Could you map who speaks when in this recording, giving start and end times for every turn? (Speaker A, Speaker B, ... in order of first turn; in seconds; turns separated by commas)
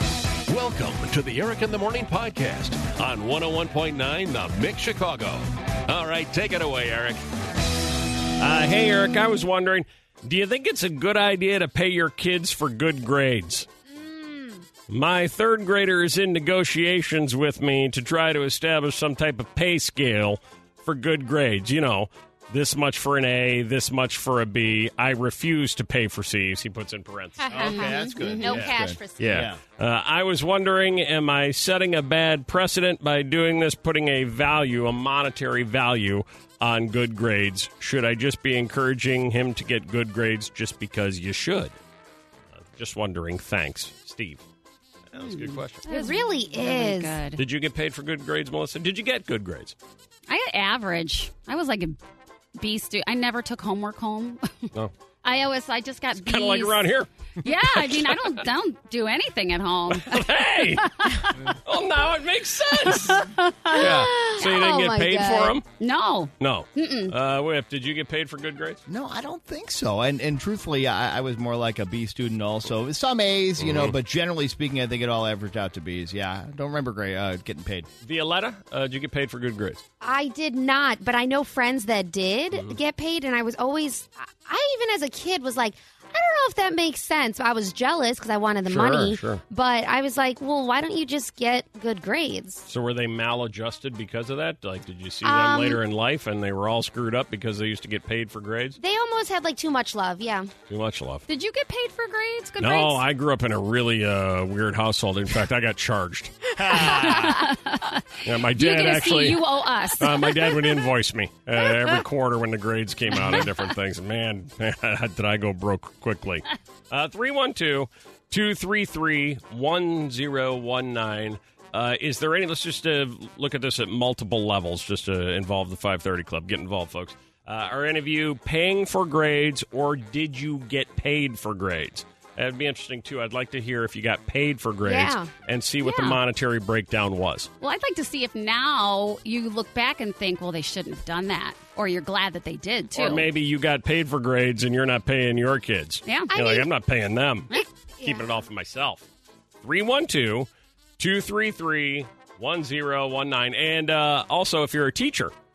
Speaker A: 0.5-7.2, Speaker B: 8.4-13.7, Speaker C: 13.9-14.6, Speaker B: 14.9-27.8, Speaker C: 27.4-29.4, Speaker D: 27.5-29.6, Speaker E: 27.6-28.6, Speaker B: 28.4-41.8, Speaker B: 42.5-44.4, Speaker B: 45.1-45.9, Speaker E: 45.2-47.4, Speaker C: 45.9-47.2, Speaker B: 47.4-49.7, Speaker E: 50.3-52.0, Speaker E: 52.5-54.7, Speaker E: 55.2-60.3, Speaker B: 56.2-58.4, Speaker B: 59.9-61.0, Speaker E: 60.8-61.4, Speaker B: 61.6-65.7, Speaker E: 62.9-63.9, Speaker C: 63.7-65.6, Speaker E: 65.7-67.1, Speaker B: 66.4-68.8, Speaker D: 68.9-77.9, Speaker B: 73.6-74.0, Speaker B: 78.0-79.8, Speaker C: 80.0-92.7, Speaker B: 88.7-89.4, Speaker B: 92.7-98.8, Speaker C: 95.2-95.8, Speaker C: 98.8-100.5, Speaker B: 100.7-101.2, Speaker E: 101.3-103.0, Speaker B: 102.6-106.4, Speaker D: 106.6-107.4, Speaker E: 106.7-110.7, Speaker B: 108.2-109.4, Speaker B: 110.0-137.5, Speaker C: 134.8-135.3, Speaker E: 135.8-136.2, Speaker E: 137.6-143.3, Speaker B: 142.9-147.5, Speaker E: 146.1-146.3, Speaker C: 146.3-146.7, Speaker C: 147.5-148.4, Speaker B: 148.0-149.1, Speaker B: 149.6-155.3